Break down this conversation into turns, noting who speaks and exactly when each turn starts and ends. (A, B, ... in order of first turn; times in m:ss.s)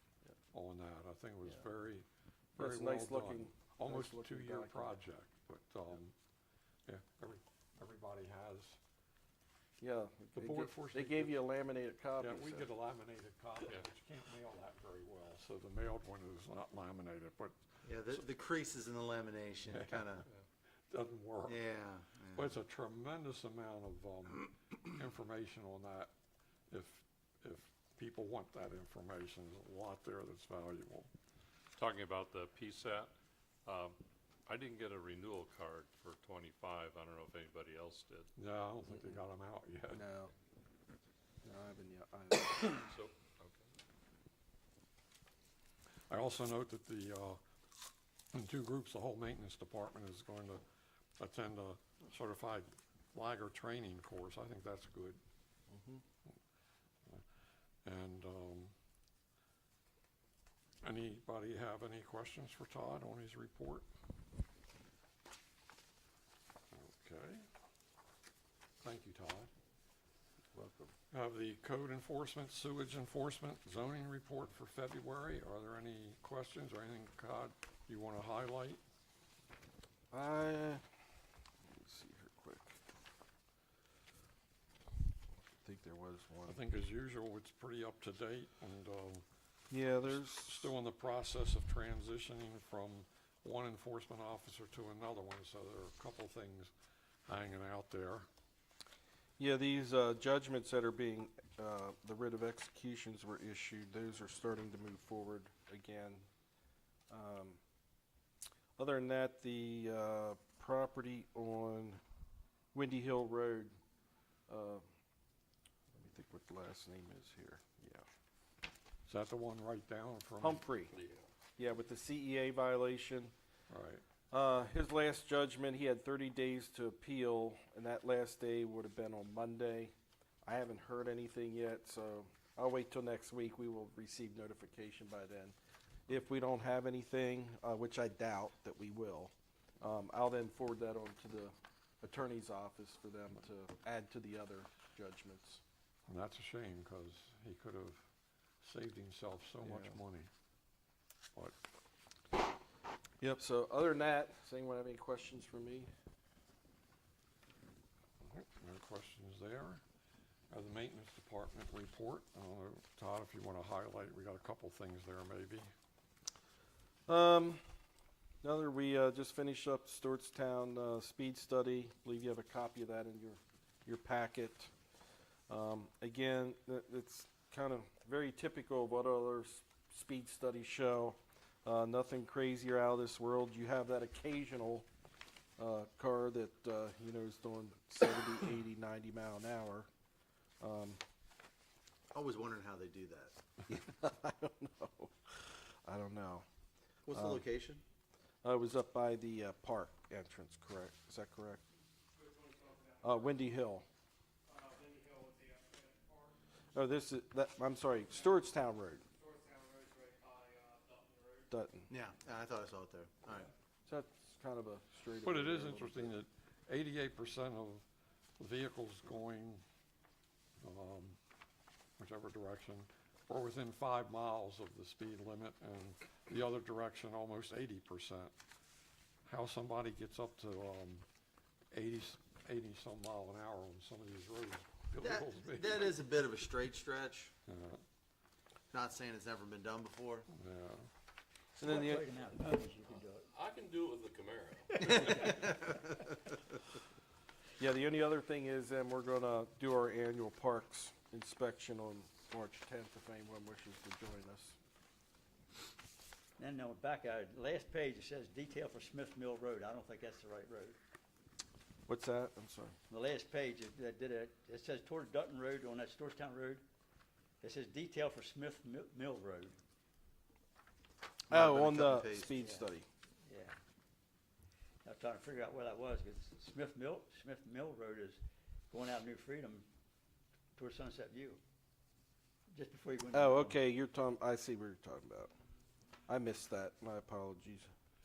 0:00.5-0:06.1 A
0:02.6-0:05.0 B
0:06.8-0:08.8 A
0:09.8-0:12.7 B
0:10.3-0:11.4 A
0:12.2-0:18.2 A
0:17.8-0:20.2 C
0:19.7-0:20.2 A
0:20.9-0:21.6 A
0:21.5-0:22.6 C
0:22.3-0:26.1 A
0:26.7-0:31.1 A
0:31.8-0:33.1 D
0:33.6-0:38.3 D
0:38.4-0:40.0 A
0:39.9-0:40.3 B
0:41.4-0:42.8 B
0:42.8-0:43.7 D
0:46.1-0:47.4 A
0:48.3-0:50.6 A
0:51.2-0:55.2 A
0:55.7-0:56.0 B
0:57.8-0:58.7 A
1:00.8-1:03.8 A
1:06.7-1:07.4 A
1:08.8-1:09.5 A
1:11.1-1:18.8 A
1:20.1-1:20.8 B
1:21.6-1:22.8 B
1:25.6-1:26.6 B
1:26.4-1:29.2 A
1:29.7-1:30.7 B
1:30.0-1:36.7 A
1:37.2-1:38.3 A
1:39.4-1:46.2 B
1:47.1-1:47.6 B
1:48.8-1:52.0 B
1:52.7-1:53.7 B
1:54.5-1:54.8 B
1:55.9-1:58.0 B
1:59.0-2:00.6 A
2:00.4-2:00.9 B
2:01.0-2:01.2 E
2:01.6-2:03.3 B
2:03.7-2:04.0 A
2:04.3-2:09.9 B
2:10.4-2:15.5 B
2:16.1-2:25.6 B
2:26.1-2:28.1 A
2:28.6-2:30.3 A
2:29.6-2:29.9 B
2:33.2-2:35.9 B
2:38.2-2:39.8 A
2:40.5-2:45.7 A
2:47.1-2:47.6 B
2:48.4-2:54.7 B
2:55.5-3:04.9 B
3:05.6-3:09.9 B
3:10.6-3:11.0 B
3:12.1-3:13.3 C
3:13.7-3:16.4 B
3:17.1-3:17.8 C
3:17.1-3:17.4 B
3:18.4-3:21.6 B
3:22.2-3:23.5 F
3:23.0-3:23.8 B
3:24.5-3:26.3 F
3:26.7-3:29.0 B
3:28.1-3:28.4 F
3:29.1-3:31.5 F
3:31.5-3:31.9 B
3:31.9-3:33.5 C
3:33.8-3:36.2 B
3:35.2-3:37.8 A
3:38.4-3:39.6 A
3:40.6-3:41.2 A
3:42.0-3:48.3 A
3:49.2-3:51.0 A
3:51.7-3:56.0 A
3:55.0-3:57.3 C
3:57.4-3:57.8 A
3:58.7-4:00.3 C
4:00.3-4:00.9 A
4:01.6-4:02.0 B
4:01.6-4:03.3 G
4:03.4-4:05.4 E
4:04.8-4:05.6 G
4:05.2-4:05.7 C
4:07.6-4:14.6 B
4:16.4-4:20.8 G
4:21.9-4:22.8 B
4:22.9-4:26.6 G
4:27.4-4:29.6 G
4:31.3-4:32.4 C
4:31.3-4:32.8 B
4:32.4-4:32.6 G
4:33.3-4:33.6 G
4:34.8-4:39.7 G
4:40.6-4:41.4 G
4:42.5-4:43.6 G
4:43.1-4:45.3 B
4:46.1-4:47.7 B